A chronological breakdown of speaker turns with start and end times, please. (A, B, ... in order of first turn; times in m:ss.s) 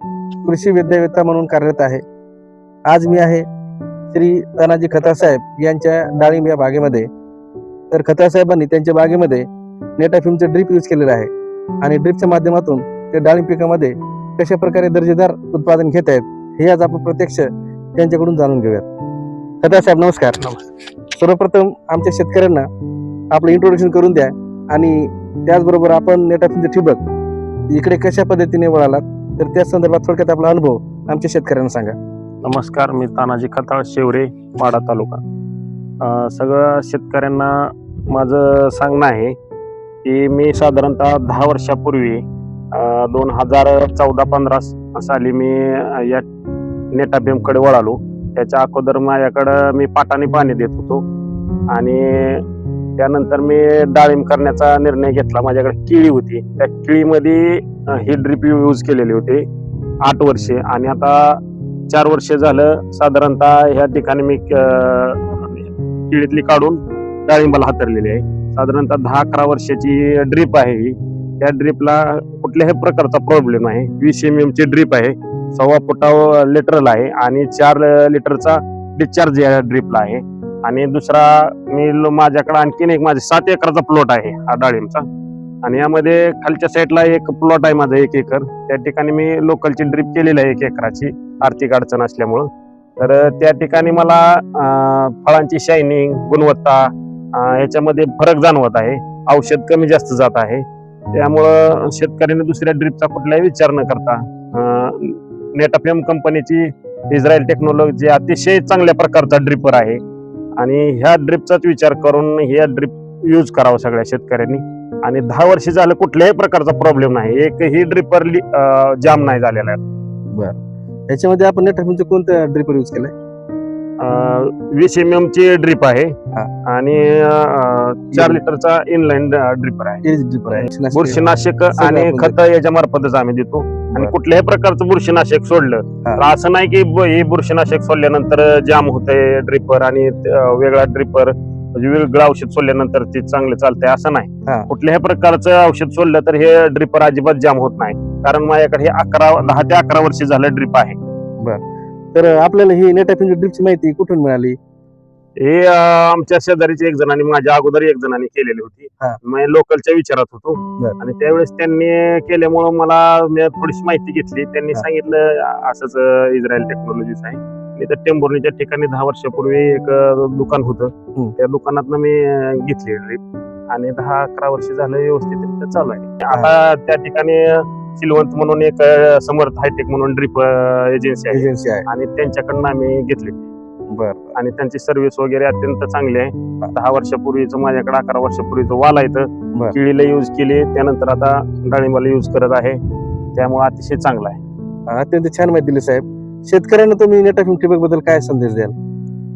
0:00.4-0:02.0 A
0:02.9-0:03.5 A
0:04.1-0:07.1 A
0:07.9-0:09.5 A
0:10.0-0:11.3 A
0:11.8-0:18.9 A
0:19.6-0:20.6 A
0:21.1-0:22.7 A
0:23.3-0:27.0 A
0:27.7-0:32.0 A
0:32.4-0:35.2 B
0:36.0-0:39.4 B
0:40.0-0:46.2 B
0:46.9-0:51.0 B
0:51.7-0:52.5 B
0:53.0-0:59.5 B
1:00.0-1:25.1 B
1:25.6-1:50.0 B
1:50.6-1:59.8 B
2:00.3-2:03.1 A
2:04.0-2:31.0 B
2:08.1-2:08.4 A
2:10.0-2:12.4 A
2:31.4-2:34.6 A
2:35.4-3:03.4 B
3:01.3-3:01.9 A
3:03.9-3:04.4 A
3:04.4-3:12.8 B
3:13.4-3:14.4 B
3:14.9-3:18.7 A